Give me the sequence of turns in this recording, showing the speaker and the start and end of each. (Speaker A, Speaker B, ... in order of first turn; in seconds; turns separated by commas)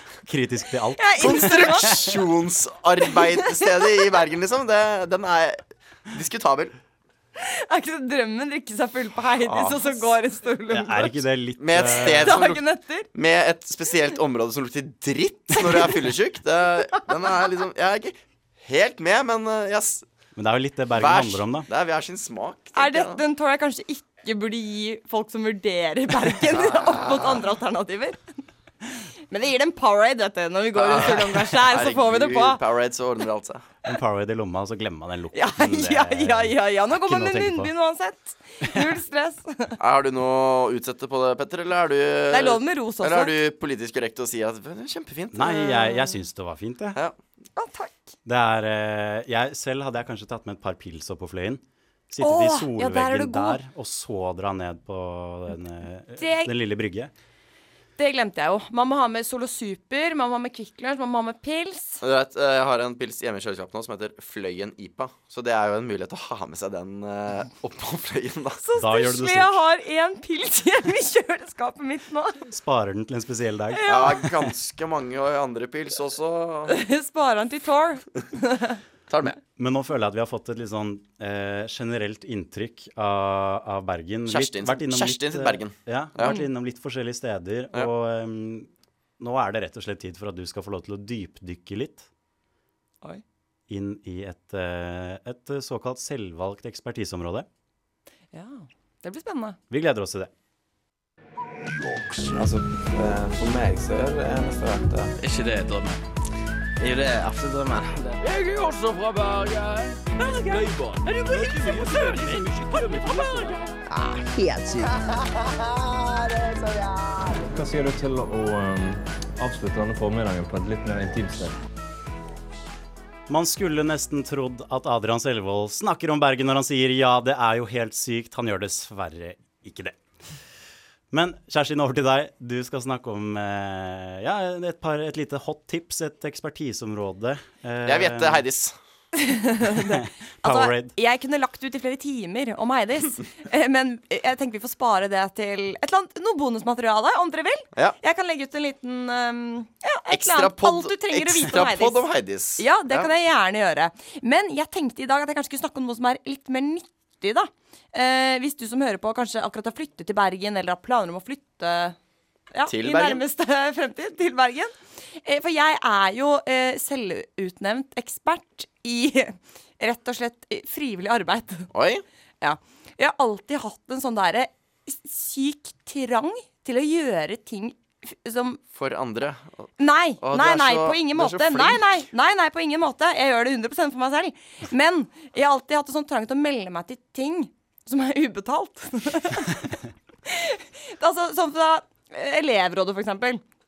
Speaker A: 0.2-2.2, Speaker B: 1.0-2.1, Speaker C: 1.2-6.7, Speaker B: 3.1-4.0, Speaker B: 7.4-11.2, Speaker C: 9.4-9.9, Speaker A: 10.7-12.4, Speaker C: 11.6-12.6, Speaker B: 11.8-13.1, Speaker C: 13.1-20.1, Speaker A: 20.4-21.7, Speaker C: 20.9-23.2, Speaker B: 22.7-28.2, Speaker C: 26.5-27.4, Speaker B: 29.3-32.6, Speaker C: 30.7-33.6, Speaker A: 33.8-37.7, Speaker B: 35.3-39.8, Speaker C: 39.8-45.8, Speaker B: 42.3-43.3, Speaker A: 45.3-47.0, Speaker B: 45.6-46.2, Speaker B: 47.5-48.1, Speaker A: 48.2-57.1, Speaker B: 52.2-53.6, Speaker B: 56.2-56.5, Speaker B: 58.0-62.0, Speaker C: 62.0-68.6, Speaker B: 68.6-72.4, Speaker A: 68.8-69.6, Speaker A: 72.5-74.4, Speaker B: 73.7-74.3, Speaker C: 73.9-76.8, Speaker B: 76.7-78.8, Speaker C: 79.1-79.4, Speaker A: 79.5-88.7, Speaker C: 84.3-86.4, Speaker A: 89.2-92.0, Speaker A: 93.7-97.5, Speaker B: 98.3-99.6, Speaker A: 99.7-100.3, Speaker D: 102.2-105.2, Speaker E: 105.2-106.0, Speaker E: 106.8-113.6, Speaker D: 117.4-121.6, Speaker A: 123.3-130.0, Speaker A: 131.1-138.4, Speaker C: 137.8-138.7, Speaker B: 139.1-152.0, Speaker A: 139.9-140.9, Speaker C: 150.1-153.1, Speaker B: 152.6-162.0, Speaker B: 162.5-171.7, Speaker C: 162.7-163.2, Speaker C: 171.7-172.0, Speaker B: 172.4-178.6, Speaker C: 178.7-179.7, Speaker B: 179.8-193.4, Speaker C: 180.2-182.0